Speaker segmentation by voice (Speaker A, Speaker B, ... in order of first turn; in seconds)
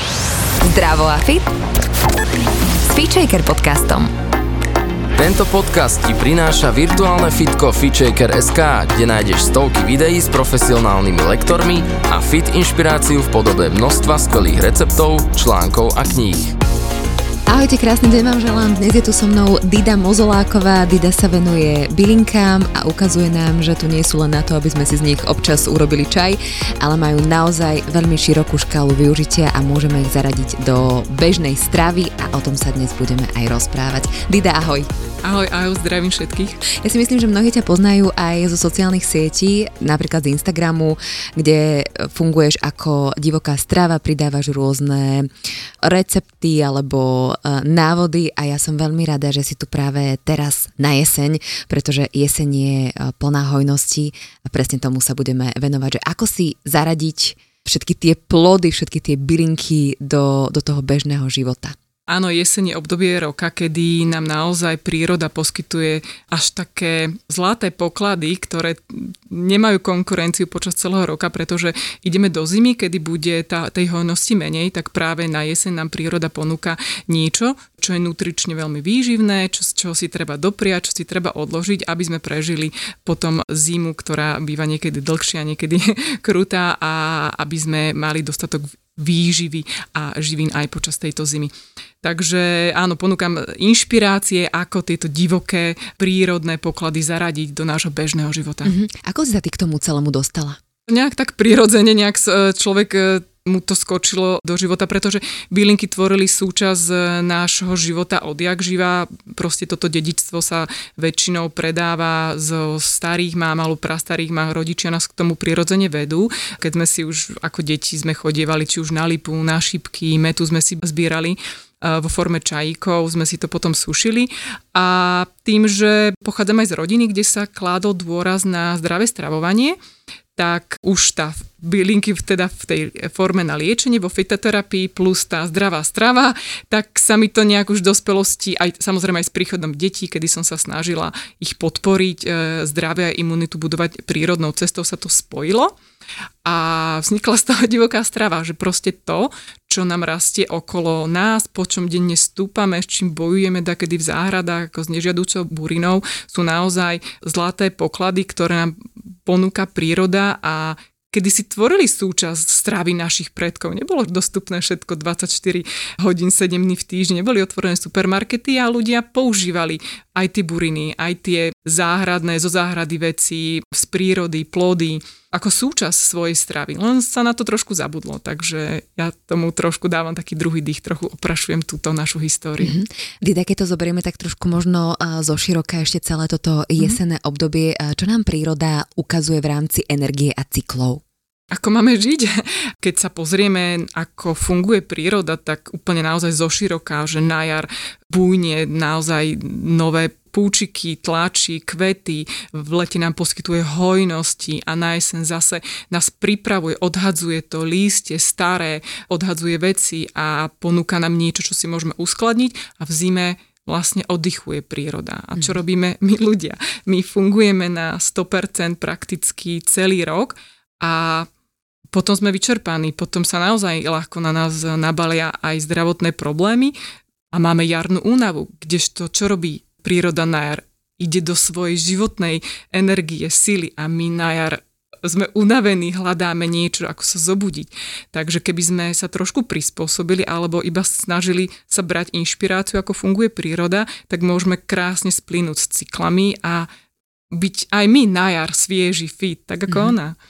Speaker A: 0.6-1.5, 2.8-4.1, 17.5-34.9, 36.8-45.3, 45.8-61.8, 98.6-100.6, 182.6-191.0, 249.7-249.9
Speaker B: 5.2-16.5
Speaker C: 35.2-36.6, 62.1-91.5, 92.0-98.7, 100.9-129.8, 130.3-145.8, 146.4-182.8, 191.5-221.3, 221.9-226.7, 227.3-246.7, 247.3-250.2